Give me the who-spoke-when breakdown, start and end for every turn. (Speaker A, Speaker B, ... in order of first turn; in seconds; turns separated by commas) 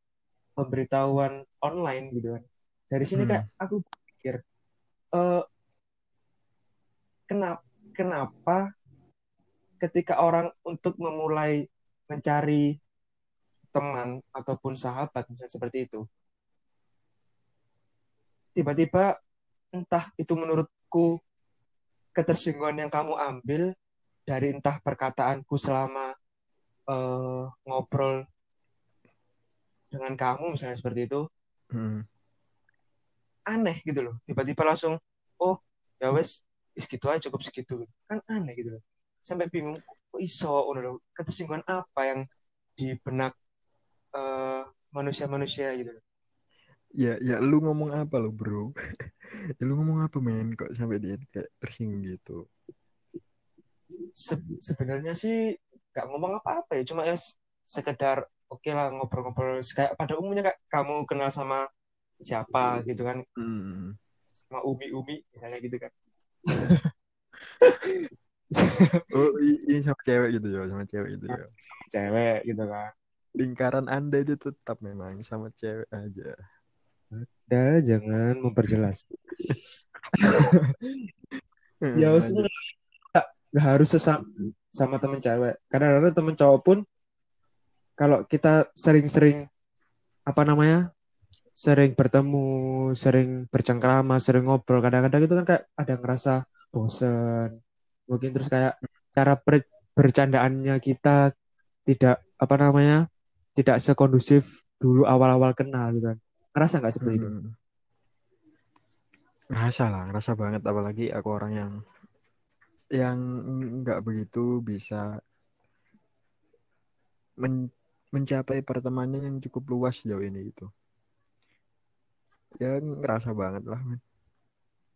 Speaker A: 0.6-4.4, Speaker B: 3.1-3.4, Speaker A: 5.1-5.4, Speaker A: 7.3-8.6, Speaker A: 9.8-11.6, Speaker A: 12.1-12.6, Speaker A: 13.8-16.0, Speaker A: 18.6-19.1, Speaker A: 19.8-21.1, Speaker A: 22.2-23.6, Speaker A: 24.3-26.1, Speaker A: 26.9-28.1, Speaker A: 29.9-31.2, Speaker B: 31.7-32.0, Speaker A: 33.5-42.2, Speaker A: 42.8-43.3, Speaker A: 44.2-46.0, Speaker B: 47.0-48.7, Speaker B: 49.6-52.4, Speaker A: 54.2-55.4, Speaker A: 55.9-61.6, Speaker A: 62.2-63.2, Speaker B: 63.4-63.9, Speaker A: 64.5-65.9, Speaker A: 66.5-66.9, Speaker A: 67.6-69.0, Speaker B: 69.1-71.5, Speaker A: 71.3-72.9, Speaker B: 73.4-76.4, Speaker A: 77.1-79.0, Speaker A: 80.2-80.6, Speaker B: 81.8-82.5, Speaker A: 82.0-84.2, Speaker A: 84.8-86.8, Speaker A: 88.0-89.4, Speaker A: 90.3-90.8, Speaker A: 91.6-97.5, Speaker A: 98.1-101.2, Speaker A: 101.9-103.0, Speaker A: 103.6-107.3, Speaker B: 107.0-107.5, Speaker B: 109.5-111.7, Speaker B: 113.8-115.0, Speaker B: 117.4-120.7, Speaker B: 122.6-124.0